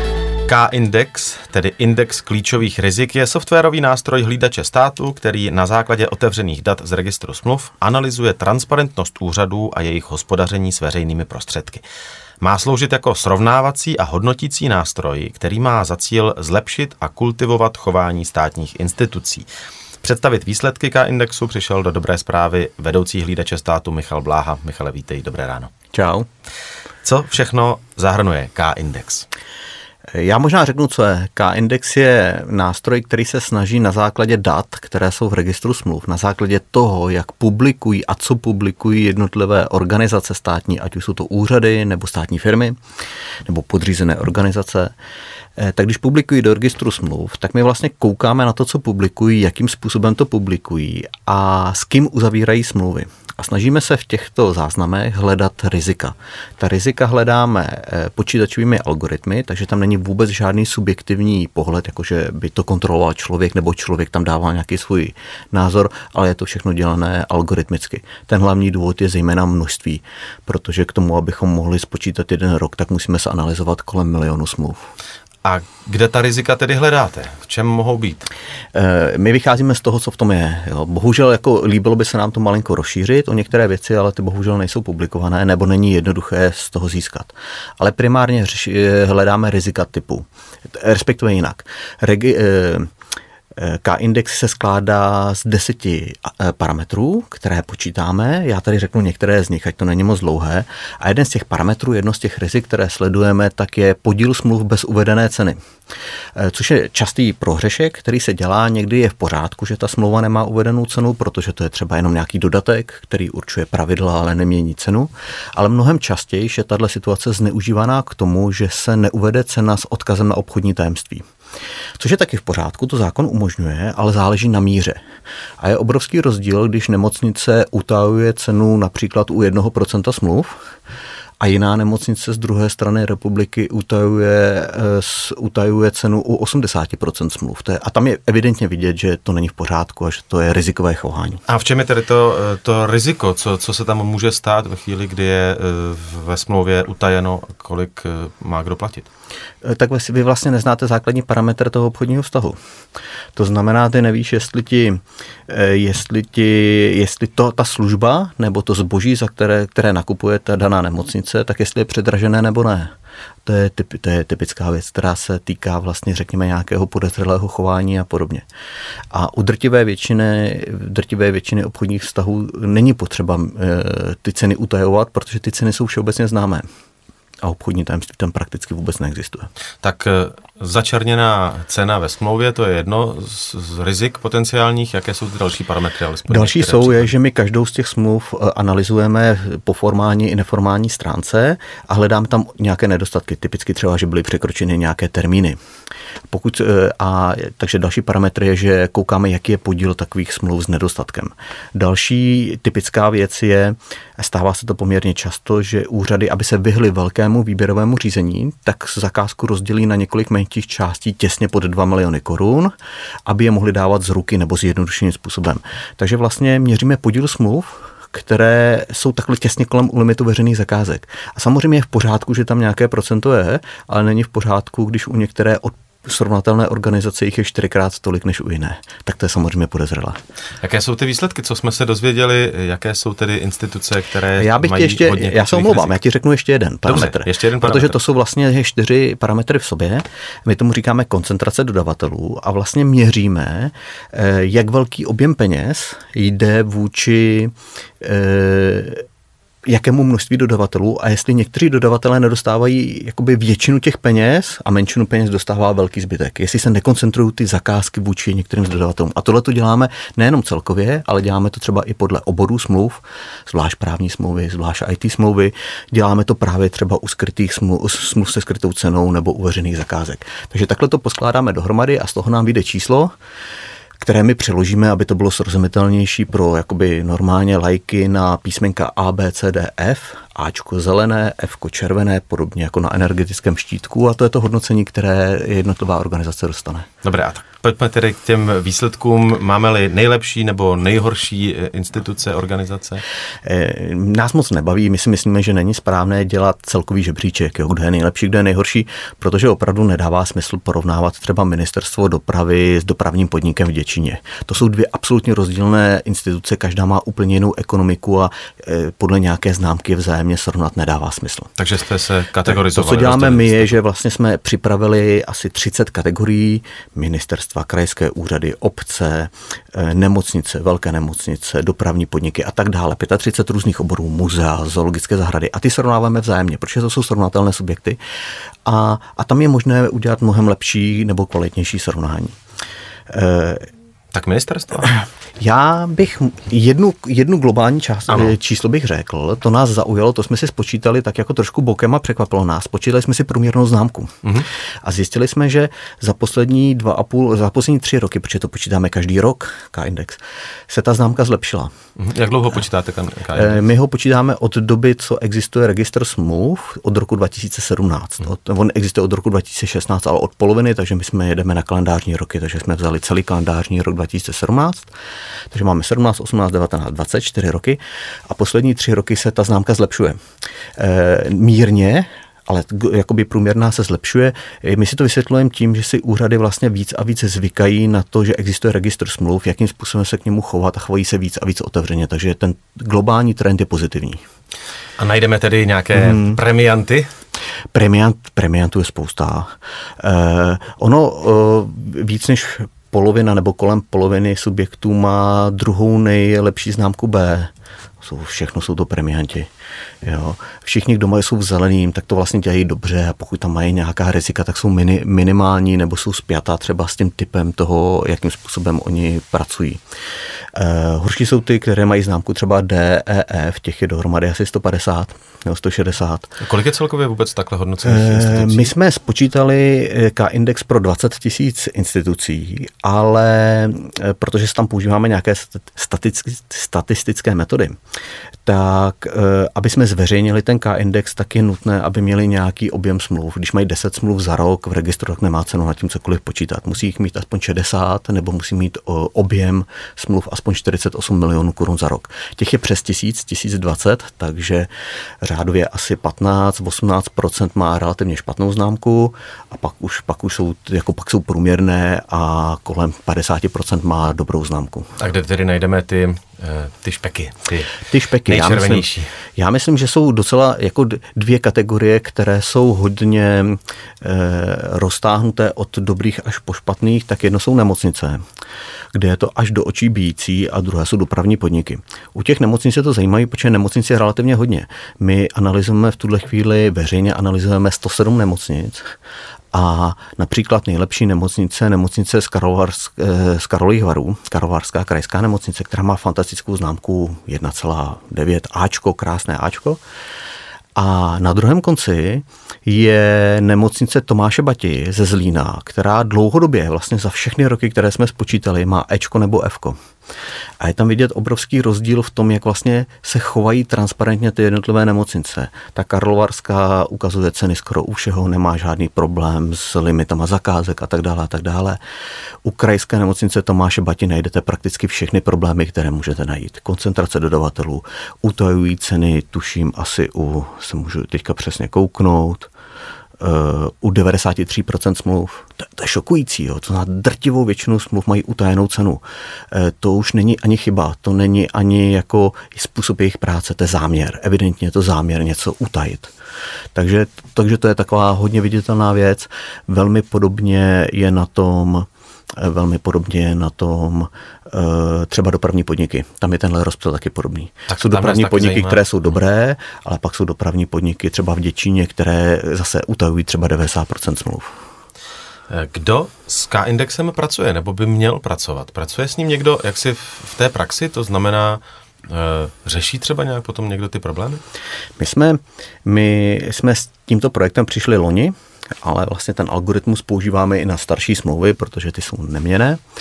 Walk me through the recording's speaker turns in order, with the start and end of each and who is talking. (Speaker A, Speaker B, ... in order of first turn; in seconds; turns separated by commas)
Speaker A: 0.5-11.8, Speaker A: 12.4-19.5, Speaker A: 20.0-25.7, Speaker B: 25.9-26.2, Speaker A: 27.0-29.2, Speaker B: 30.1-42.8, Speaker B: 43.5-44.9, Speaker B: 45.6-74.8, Speaker A: 75.4-78.3, Speaker B: 78.7-92.9, Speaker B: 93.5-105.6, Speaker B: 106.3-121.2, Speaker B: 122.0-125.0, Speaker B: 125.6-130.6, Speaker B: 131.4-141.4, Speaker A: 141.5-149.1, Speaker B: 149.6-152.6, Speaker B: 153.3-162.9, Speaker B: 163.4-168.4, Speaker B: 169.1-176.7, Speaker B: 177.4-179.5, Speaker A: 179.8-187.1, Speaker B: 186.3-195.6, Speaker B: 196.3-212.7, Speaker B: 213.2-230.2, Speaker A: 230.6-236.0, Speaker B: 234.3-249.0, Speaker A: 236.8-237.9, Speaker B: 249.7-273.1, Speaker B: 274.0-286.9, Speaker A: 287.0-293.0, Speaker B: 293.4-311.5, Speaker A: 311.6-313.7, Speaker B: 312.4-328.0, Speaker B: 328.6-332.3, Speaker B: 333.1-333.7, Speaker A: 334.1-334.9, Speaker B: 335.4-344.2, Speaker A: 338.1-338.3, Speaker B: 344.8-351.7, Speaker A: 352.0-353.6, Speaker B: 353.3-364.9, Speaker B: 365.5-370.2, Speaker B: 370.8-384.2, Speaker A: 385.0-387.1, Speaker B: 385.9-386.4, Speaker B: 387.7-399.5, Speaker B: 400.0-409.8, Speaker B: 410.5-416.4, Speaker A: 416.4-418.7, Speaker B: 417.8-427.8, Speaker B: 428.4-444.7, Speaker B: 445.2-454.9, Speaker A: 455.0-459.1, Speaker B: 457.8-468.2, Speaker B: 468.9-478.9, Speaker B: 479.5-489.8, Speaker B: 490.8-499.8, Speaker B: 500.6-511.8, Speaker B: 512.4-522.5, Speaker B: 523.2-536.1, Speaker B: 536.7-554.6, Speaker A: 547.7-548.8, Speaker A: 555.5-564.4, Speaker B: 565.0-572.8